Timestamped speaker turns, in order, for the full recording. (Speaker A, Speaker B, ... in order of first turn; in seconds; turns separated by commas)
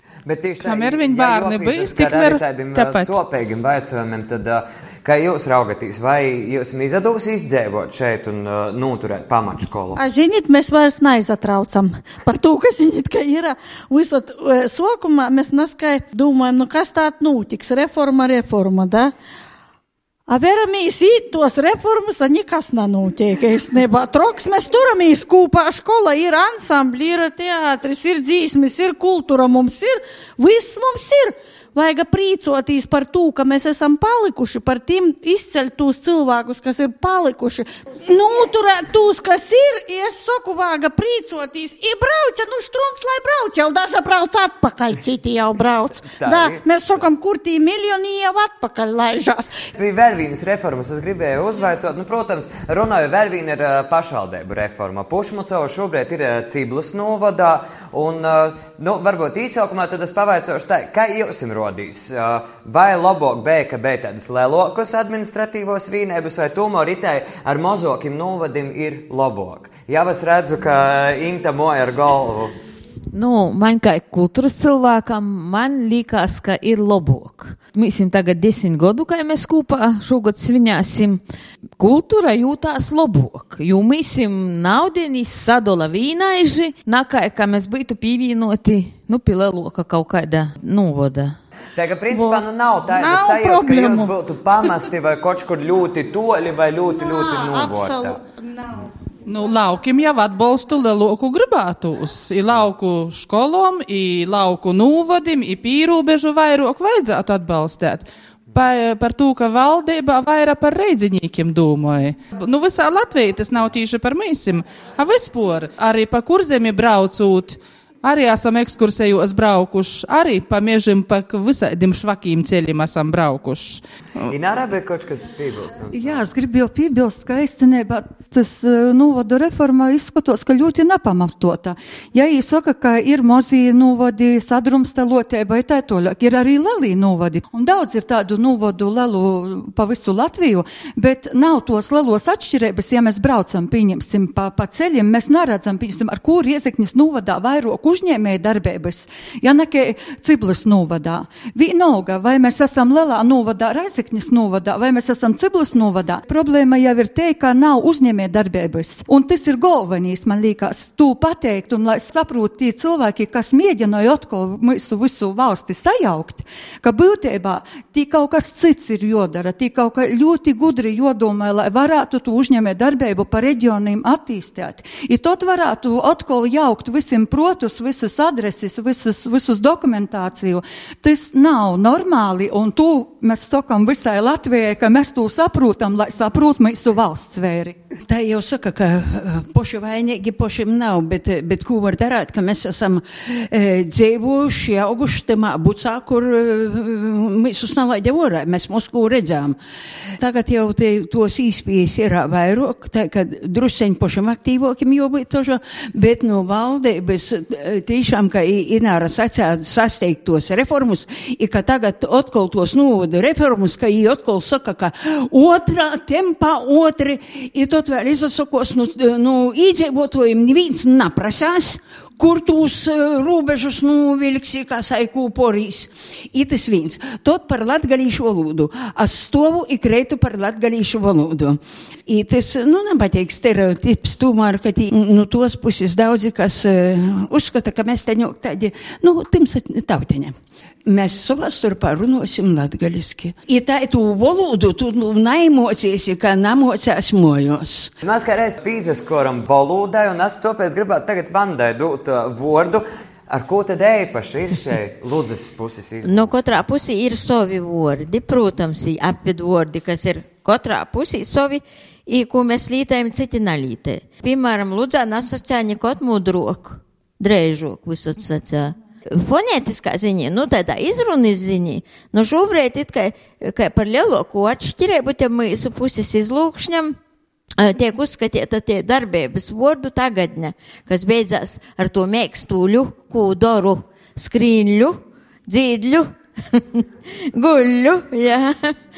Speaker A: 0.2-10.0, Speaker B: 0.6-3.1, Speaker C: 9.9-19.1, Speaker C: 20.3-49.5, Speaker A: 46.0-47.1, Speaker A: 49.7-72.5, Speaker D: 73.1-81.2, Speaker D: 81.8-91.3, Speaker A: 91.8-98.2, Speaker C: 92.1-94.1, Speaker C: 96.9-98.6, Speaker B: 99.2-123.8, Speaker A: 124.3-126.3, Speaker E: 125.9-187.7, Speaker F: 188.1-199.6, Speaker F: 200.2-240.3, Speaker F: 240.8-247.9, Speaker A: 248.0-256.4, Speaker G: 256.0-276.9, Speaker G: 277.6-288.8